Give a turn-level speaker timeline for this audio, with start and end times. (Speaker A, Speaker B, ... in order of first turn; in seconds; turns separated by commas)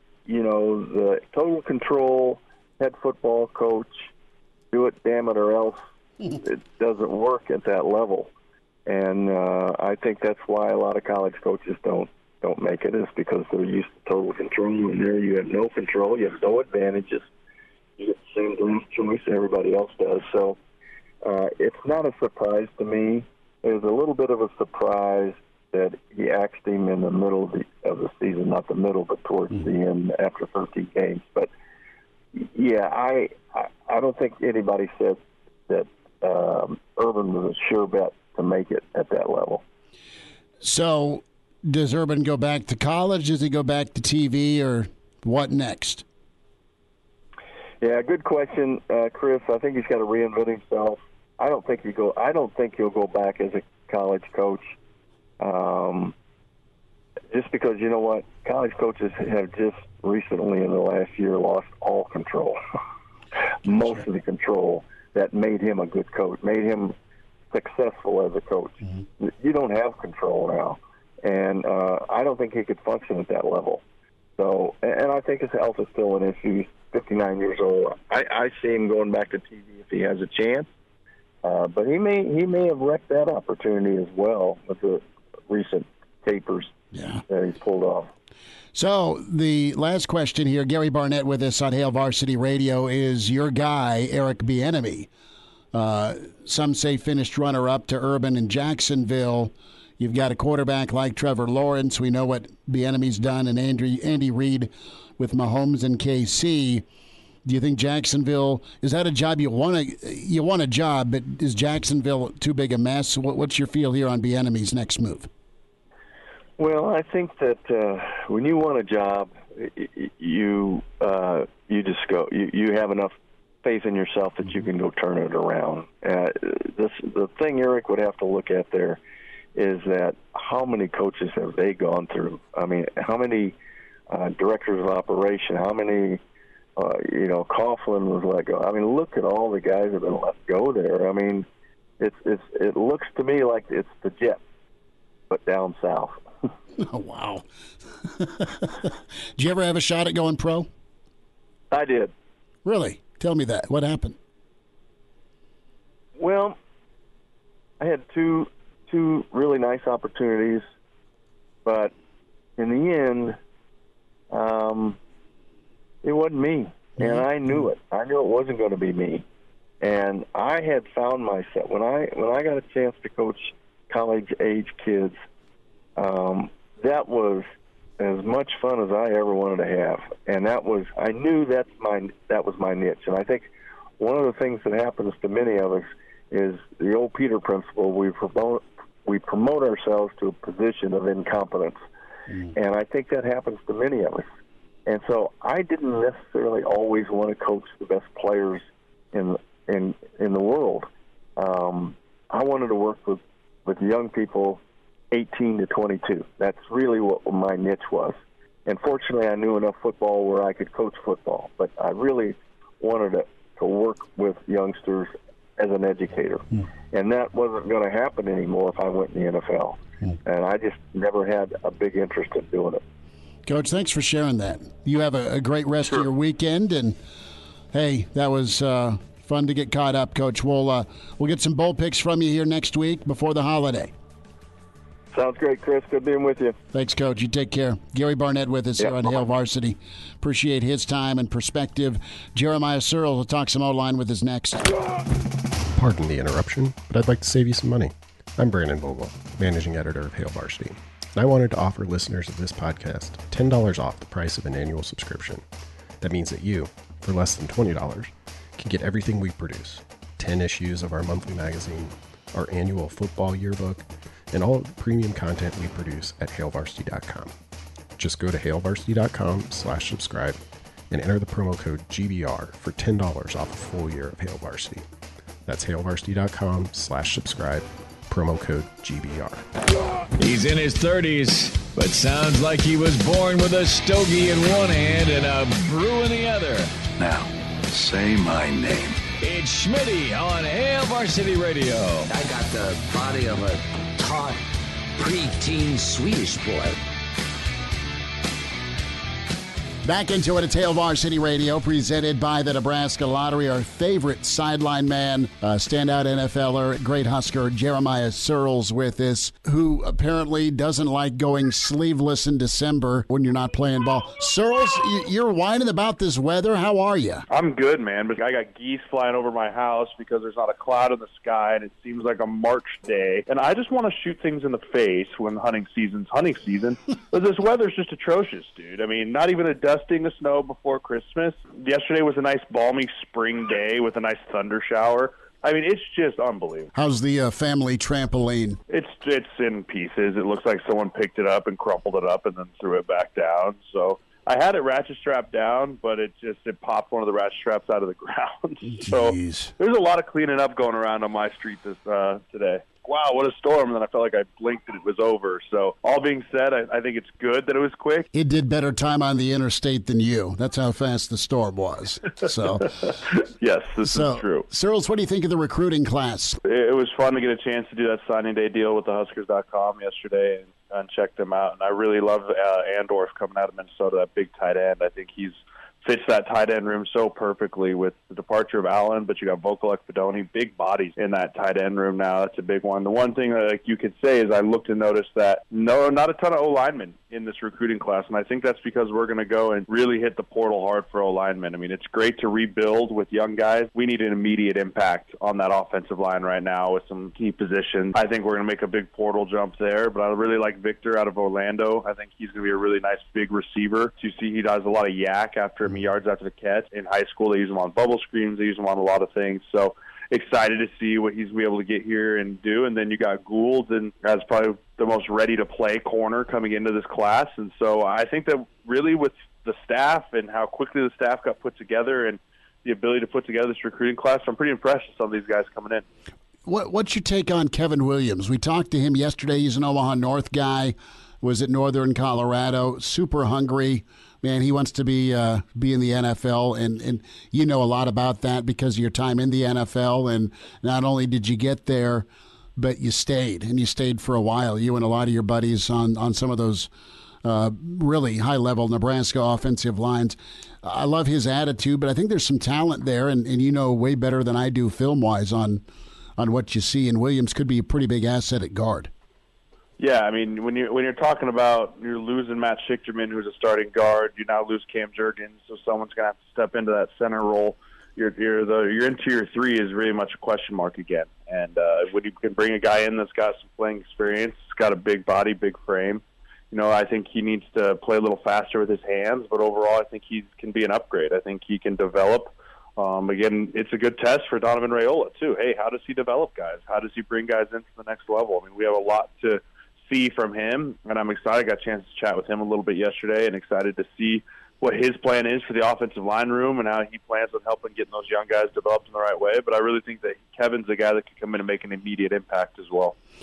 Speaker A: 0.3-4.1, Speaker A: 4.7-5.8, Speaker A: 6.3-8.3, Speaker A: 8.9-17.3, Speaker A: 18.0-20.6, Speaker A: 21.2-31.5, Speaker A: 32.3-39.6, Speaker B: 40.6-46.0, Speaker A: 47.8-54.8, Speaker A: 55.4-56.1, Speaker A: 57.3-62.6, Speaker A: 63.6-67.0, Speaker A: 67.5-73.8, Speaker A: 74.4-80.7, Speaker A: 81.4-86.8, Speaker B: 86.9-87.2, Speaker A: 87.3-88.1, Speaker B: 88.7-95.1, Speaker B: 95.7-106.8, Speaker B: 107.5-115.3, Speaker A: 116.6-129.0, Speaker A: 129.6-133.6, Speaker A: 134.1-136.2, Speaker A: 136.8-141.5, Speaker A: 142.0-144.4, Speaker A: 145.3-146.2, Speaker B: 146.8-147.4, Speaker B: 148.0-150.7, Speaker A: 151.7-152.1, Speaker B: 152.7-154.2, Speaker A: 156.2-156.6, Speaker A: 157.8-160.7, Speaker A: 161.7-161.9, Speaker A: 162.6-163.4, Speaker A: 164.3-165.0, Speaker A: 166.0-169.2, Speaker A: 169.8-175.2, Speaker A: 176.0-183.5, Speaker A: 184.0-191.8, Speaker A: 192.5-194.3, Speaker A: 194.9-222.8, Speaker B: 223.5-227.0, Speaker B: 227.7-233.9, Speaker A: 235.1-236.6, Speaker B: 236.7-244.7, Speaker A: 238.8-239.2, Speaker C: 245.7-255.4, Speaker C: 256.0-267.3, Speaker C: 268.0-274.9, Speaker C: 275.4-279.4, Speaker D: 280.2-286.7, Speaker E: 287.0-289.0, Speaker D: 289.2-292.1, Speaker F: 292.1-294.4, Speaker F: 295.0-296.8, Speaker B: 299.8-317.2, Speaker G: 317.3-336.7, Speaker B: 336.8-338.6, Speaker G: 338.7-358.1, Speaker B: 348.8-349.5, Speaker B: 358.1-362.7, Speaker G: 363.2-364.5, Speaker B: 363.9-366.4, Speaker G: 366.4-425.9, Speaker B: 426.5-446.7, Speaker B: 447.2-455.6, Speaker B: 456.2-458.9, Speaker G: 459.8-502.9